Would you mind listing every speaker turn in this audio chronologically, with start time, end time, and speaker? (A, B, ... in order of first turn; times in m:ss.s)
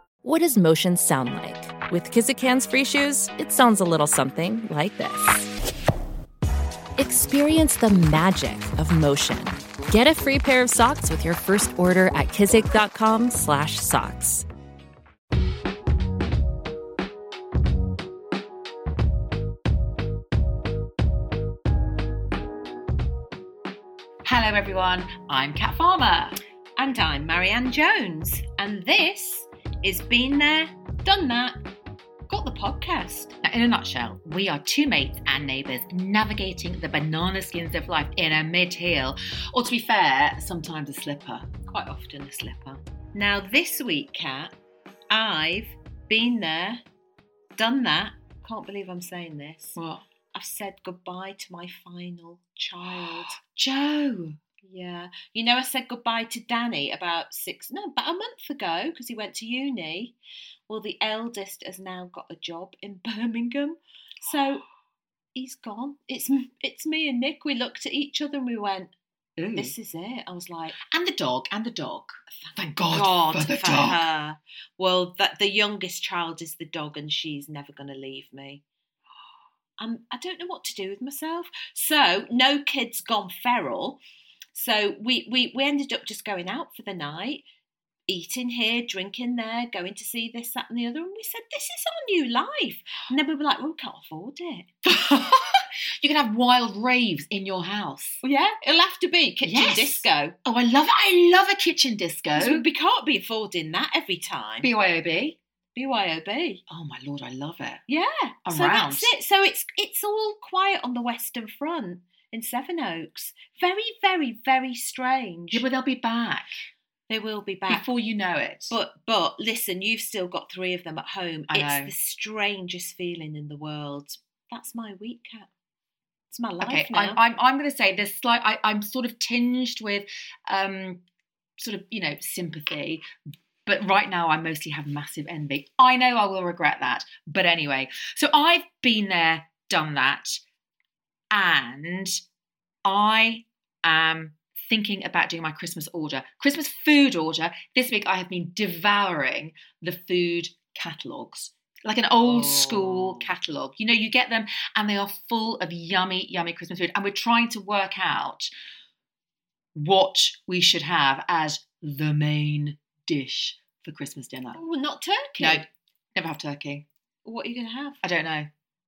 0:00.2-0:05.5 A
0:07.0-0:14.5 A
0:24.2-0:26.4 B
0:26.8-0:31.6 C
0:32.3-0:33.3 C
0:33.4-0:41.5 B
0:41.7-0:44.5 C
0:45.1-0:46.8 C
0:47.6-0:49.8 C
0:49.8-0:50.0 B
0:50.4-0:53.4 C
0:52.8-0:54.4 B
0:54.7-1:00.2 C
1:00.7-1:04.6 C
1:05.4-1:08.9 C
1:09.4-1:09.7 B
1:09.6-1:10.8 C
1:10.9-1:14.0 B
1:12.9-1:18.6 C
1:19.8-1:24.0 C
1:24.5-1:27.4 C
1:28.1-1:34.7 C
1:34.8-1:38.2 B
1:38.2-1:40.4 C
1:39.4-1:42.7 B
1:42.4-1:44.7 C
1:44.6-1:45.4 B
1:45.8-1:46.6 C
1:46.7-1:47.8 B
1:47.9-1:55.6 C
1:48.5-1:49.1 B
1:55.5-1:56.6 B
1:57.1-1:57.9 C
1:57.7-1:58.8 B
1:58.7-2:05.5 C
2:01.5-2:01.9 B
2:06.3-2:07.2 C
2:06.6-2:11.0 B
2:11.6-2:13.1 B
2:13.7-2:20.4 B
2:21.3-2:22.2 B
2:22.9-2:38.5 B
2:32.2-2:33.3 C
2:39.8-2:44.6 B
2:44.6-2:45.6 C
2:45.4-2:46.8 B
2:47.2-2:48.0 C
2:48.0-2:48.5 B